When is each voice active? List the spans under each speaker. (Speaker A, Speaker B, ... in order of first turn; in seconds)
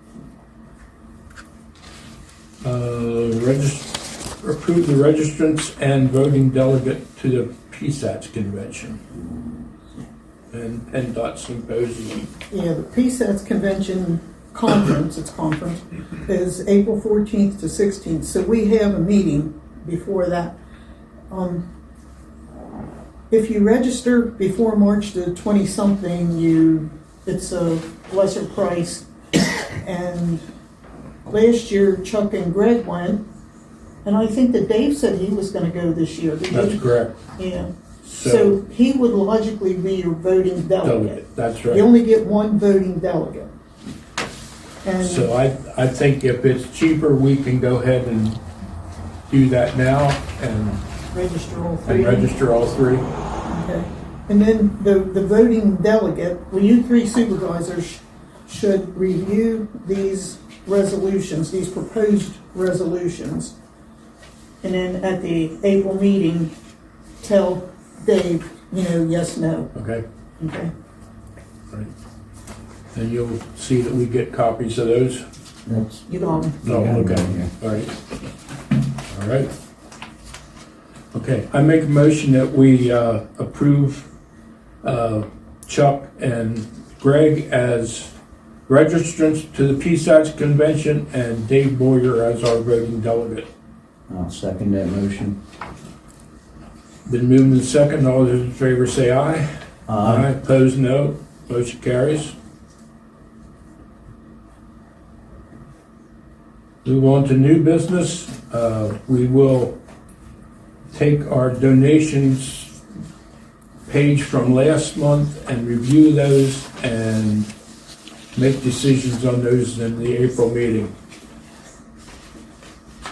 Speaker A: 2.6-9.0, 10.5-12.3, 36.5-37.2, 38.0-38.6, 40.8-41.9, 45.0-48.4, 49.3-50.8, 51.9-53.0, 69.8-70.0, 72.9-75.2, 76.6-77.9, 79.1-79.5, 81.1-84.1, 84.8-88.1, 88.7-93.5, 97.1-99.5, 100.0-102.3, 106.8-109.8, 110.9-112.8, 113.9-117.5, 118.3-120.9
Speaker B: 12.5-20.6, 21.3-21.6, 23.3-29.1, 29.8-30.4, 31.3-33.2, 34.0-36.8, 37.4-43.5, 44.8-45.3, 51.1-52.3, 53.5-63.5, 64.6-66.5, 67.2-69.7, 70.4-70.7, 76.1-76.6
Speaker C: 75.7-76.1, 76.6-77.5, 94.1-95.4, 99.9-100.3